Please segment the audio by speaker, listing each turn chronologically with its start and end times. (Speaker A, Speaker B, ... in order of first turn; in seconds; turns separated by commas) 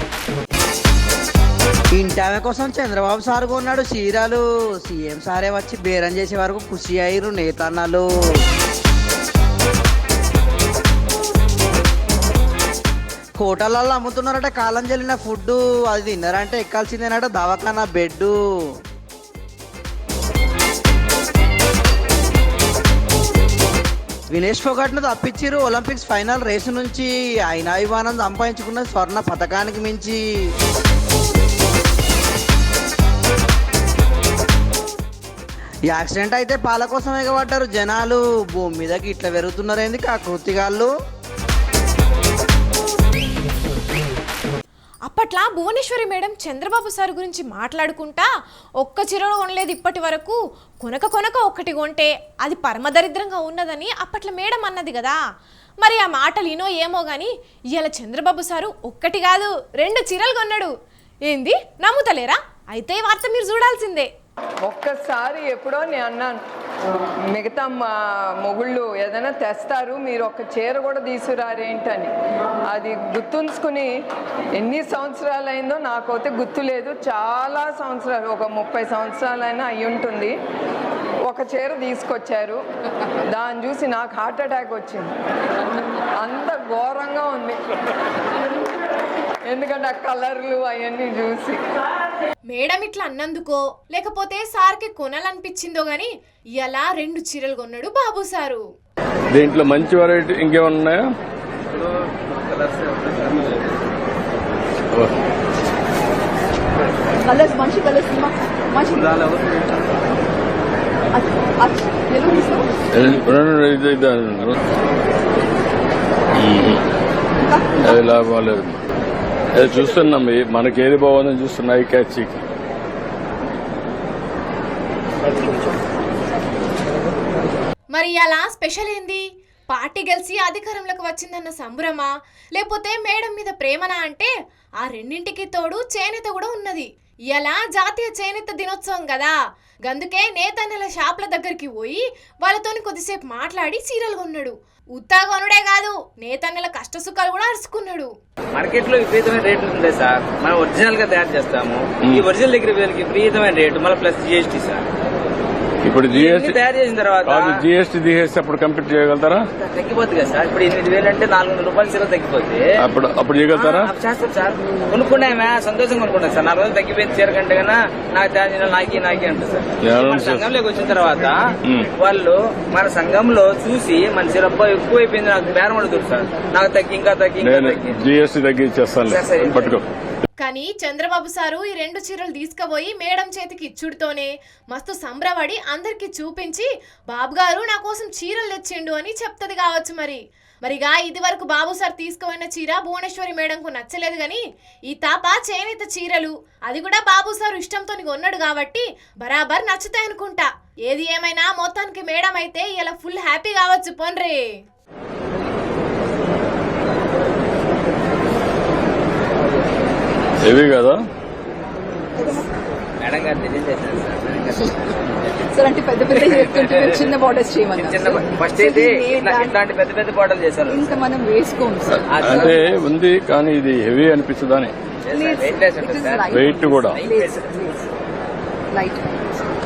Speaker A: 1.9-8.1, Speaker A: 13.4-18.4, Speaker A: 24.3-30.2, Speaker A: 35.9-40.9, Speaker B: 45.1-55.2, Speaker B: 55.8-60.7, Speaker B: 61.3-64.1, Speaker C: 64.7-66.4, Speaker C: 67.3-72.1, Speaker C: 72.7-73.9, Speaker C: 74.6-80.3, Speaker C: 81.3-82.6, Speaker C: 83.3-85.1, Speaker C: 86.2-87.6, Speaker C: 89.5-91.6, Speaker B: 92.5-98.6, Speaker D: 99.3-101.0, Speaker E: 102.4-103.6, Speaker D: 104.9-105.2, Speaker F: 107.2-109.2, Speaker F: 111.1-112.7, Speaker D: 112.9-114.5, Speaker D: 116.3-116.8, Speaker F: 117.4-117.9, Speaker D: 117.8-118.8, Speaker D: 119.5-122.4, Speaker B: 127.9-134.3, Speaker B: 134.8-148.1, Speaker E: 148.5-154.8, Speaker D: 155.8-156.6, Speaker E: 156.1-157.6, Speaker D: 157.2-159.4, Speaker E: 159.7-162.7, Speaker D: 162.8-163.9, Speaker E: 163.5-171.4, Speaker D: 169.8-170.5, Speaker D: 171.6-171.9, Speaker E: 171.9-178.0, Speaker D: 177.4-179.8, Speaker E: 179.1-179.8, Speaker B: 180.4-204.4, Speaker D: 210.4-211.0, Speaker F: 212.2-212.5, Speaker E: 213.0-215.4, Speaker F: 215.5-219.6, Speaker E: 216.2-217.2, Speaker E: 217.7-221.0, Speaker F: 220.7-222.4, Speaker E: 222.1-222.8, Speaker D: 222.1-224.7, Speaker E: 225.0-227.4, Speaker F: 225.1-227.9, Speaker D: 226.3-227.0, Speaker F: 228.7-229.3